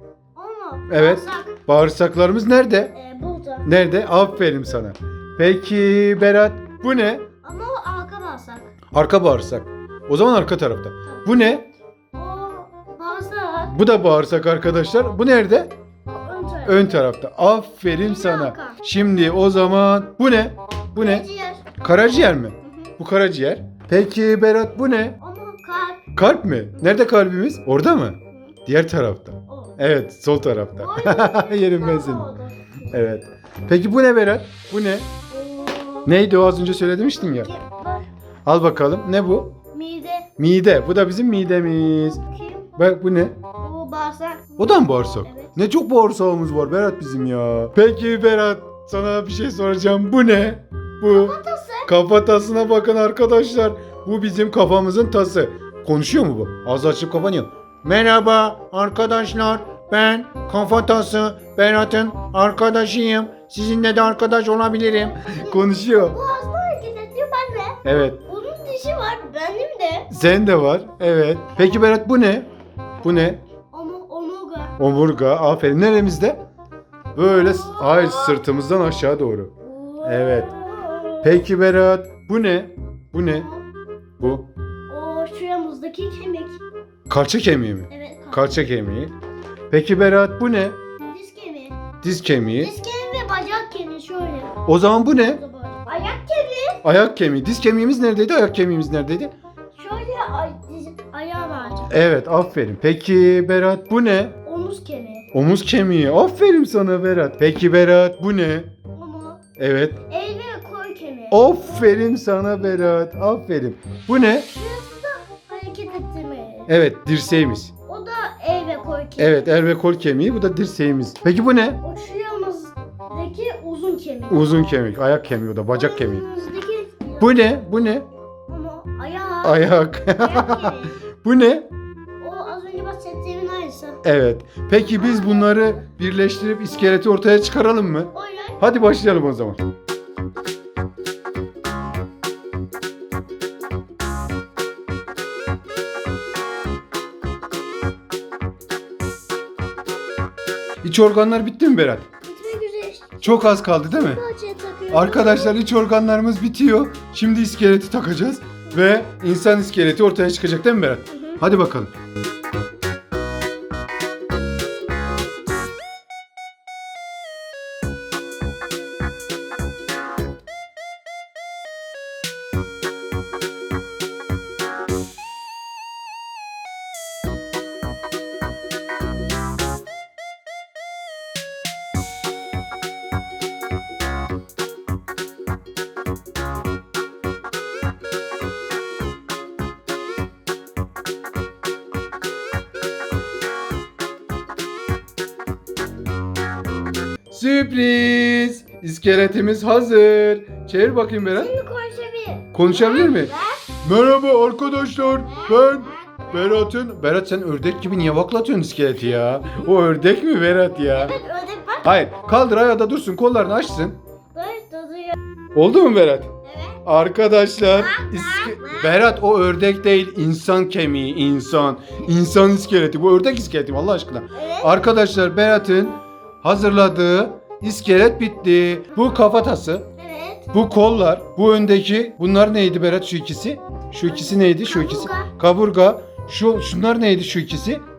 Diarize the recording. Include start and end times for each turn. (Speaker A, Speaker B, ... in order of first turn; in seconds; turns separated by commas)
Speaker A: 0.3-1.6, Speaker B: 0.9-2.9, Speaker A: 2.9-3.7, Speaker B: 3.6-7.3, Speaker A: 7.4-8.7, Speaker B: 8.9-11.7, Speaker A: 12.1-13.7, Speaker B: 13.7-15.7, Speaker A: 16.1-17.0, Speaker B: 16.6-21.2, Speaker A: 17.9-18.8, Speaker A: 20.9-21.7, Speaker B: 21.8-25.2, Speaker A: 22.6-22.9, Speaker A: 25.2-26.1, Speaker B: 26.1-32.3, Speaker A: 29.5-29.8, Speaker A: 30.8-33.0, Speaker B: 32.9-35.1, Speaker A: 35.3-36.2, Speaker B: 36.0-37.5, Speaker A: 37.1-38.1, Speaker B: 38.5-39.5, Speaker A: 39.7-40.3, Speaker B: 40.4-42.2, Speaker A: 42.2-42.7, Speaker B: 42.8-43.4, Speaker A: 43.6-45.5, Speaker B: 44.6-66.2, Speaker A: 51.1-51.9, Speaker A: 64.7-70.1, Speaker B: 67.8-68.2, Speaker B: 70.1-72.5, Speaker B: 73.0-73.4, Speaker A: 73.7-74.8, Speaker B: 74.8-76.4, Speaker B: 77.1-79.5, Speaker A: 77.3-78.4, Speaker A: 79.6-81.4, Speaker B: 80.0-80.5, Speaker B: 81.2-83.5, Speaker A: 83.2-83.6, Speaker B: 84.2-84.5, Speaker A: 84.9-86.6, Speaker B: 87.1-89.1, Speaker A: 87.9-88.7, Speaker B: 89.7-90.8, Speaker A: 91.0-91.8, Speaker B: 92.0-92.7, Speaker A: 92.6-94.7, Speaker B: 94.6-95.4, Speaker A: 95.2-96.8, Speaker B: 96.8-99.3, Speaker A: 99.8-102.0, Speaker B: 101.9-104.3, Speaker A: 104.4-105.3, Speaker B: 105.3-108.7, Speaker A: 108.9-109.4, Speaker B: 109.6-110.0, Speaker A: 110.1-112.1, Speaker B: 111.3-114.5, Speaker A: 114.4-116.7, Speaker B: 116.7-117.7, Speaker A: 117.8-119.5, Speaker B: 119.2-121.8, Speaker A: 121.8-124.6, Speaker B: 124.3-126.2, Speaker A: 125.7-127.4, Speaker B: 127.2-128.1, Speaker A: 128.5-131.0, Speaker B: 129.4-131.7, Speaker A: 132.2-134.0, Speaker B: 134.0-139.6, Speaker A: 134.9-135.8, Speaker A: 138.1-138.6, Speaker B: 150.8-152.1, Speaker A: 152.2-155.6, Speaker B: 153.2-154.2, Speaker B: 154.9-161.9, Speaker A: 161.1-161.4, Speaker B: 197.3-201.6, Speaker A: 201.3-203.8, Speaker B: 202.5-211.2, Speaker A: 205.2-206.7, Speaker A: 209.1-210.1, Speaker A: 210.8-211.9, Speaker B: 211.8-214.0, Speaker A: 214.3-215.2, Speaker B: 215.5-229.9, Speaker A: 216.4-216.8, Speaker A: 217.7-219.0, Speaker A: 224.3-224.8, Speaker A: 230.0-230.5, Speaker B: 230.5-237.8, Speaker A: 234.1-235.3